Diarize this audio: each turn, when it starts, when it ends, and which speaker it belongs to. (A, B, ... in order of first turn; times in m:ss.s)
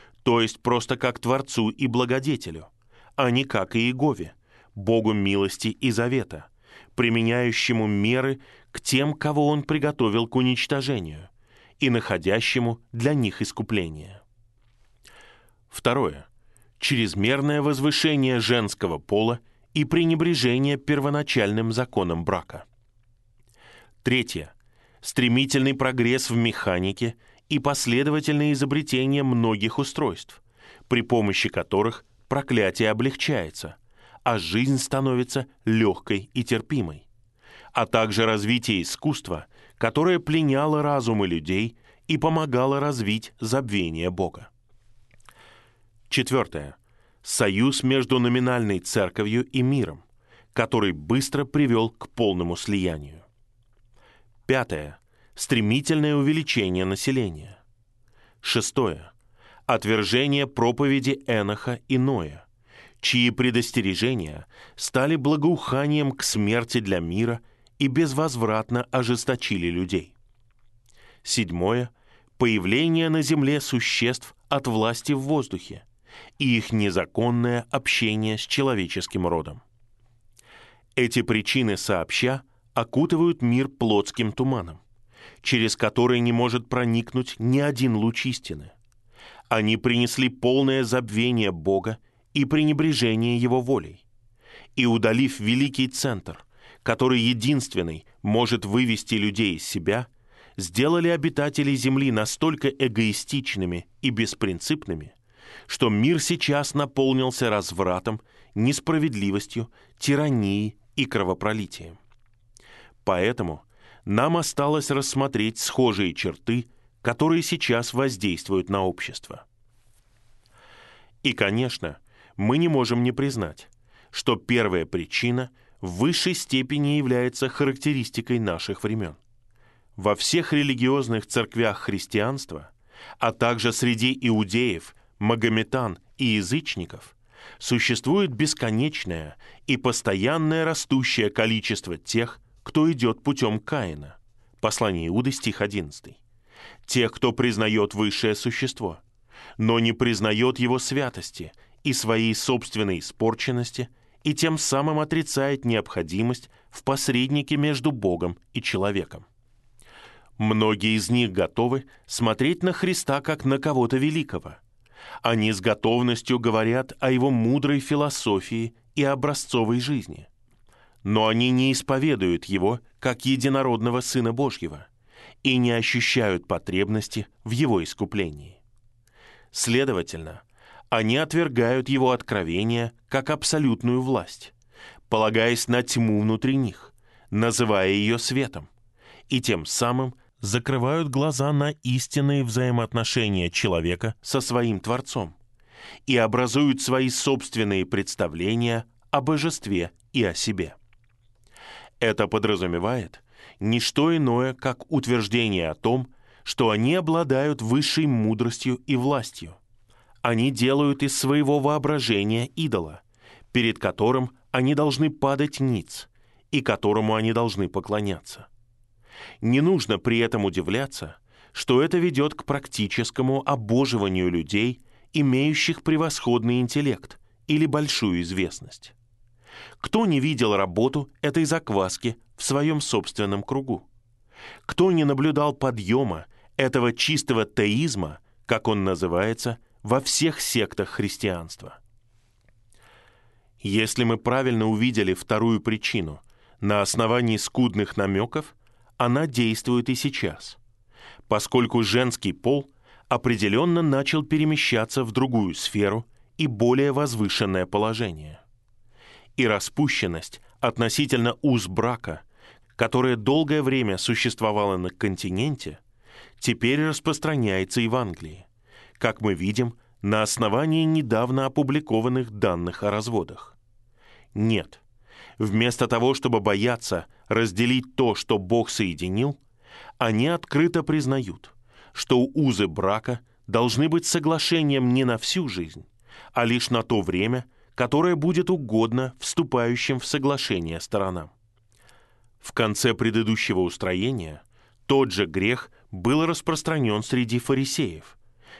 0:00.2-0:14.2 A
0:15.7-0:16.3 A
0:16.8-0:22.6 A
0:24.0-0:37.1 A
0:37.7-0:44.5 A
0:46.1-0:50.0 A
0:50.5-0:53.2 A
0:54.5-0:57.6 A
0:58.4-0:59.1 A
0:59.7-1:02.4 A
1:03.0-1:10.1 A
1:11.2-1:15.8 A
1:16.4-1:19.6 A
1:21.0-1:24.8 A
1:25.4-1:28.7 A
1:29.5-1:34.0 A
1:34.8-1:45.1 A
1:45.7-1:52.0 A
1:53.0-1:59.4 A
2:01.2-2:09.2 A
2:10.0-2:26.2 A
2:26.8-2:29.0 A
2:29.6-2:39.2 A
2:40.4-2:44.6 A
2:45.2-2:50.3 A
2:51.0-2:54.9 A
2:55.4-2:58.6 A
2:59.5-3:04.5 A
3:05.1-3:08.7 A
3:09.3-3:15.4 A
3:16.0-3:20.8 A
3:22.0-3:29.6 A
3:30.2-3:38.5 A
3:39.4-3:48.9 A
3:49.8-3:53.9 A
3:54.6-4:01.8 A
4:03.6-4:10.6 A
4:11.3-4:18.4 A
4:19.4-4:22.2 A
4:22.8-4:25.8 A
4:26.4-4:28.4 A
4:29.0-4:33.6 A
4:34.4-4:34.8 A
4:35.4-4:39.4 A
4:40.0-4:51.3 A
4:52.4-4:58.2 A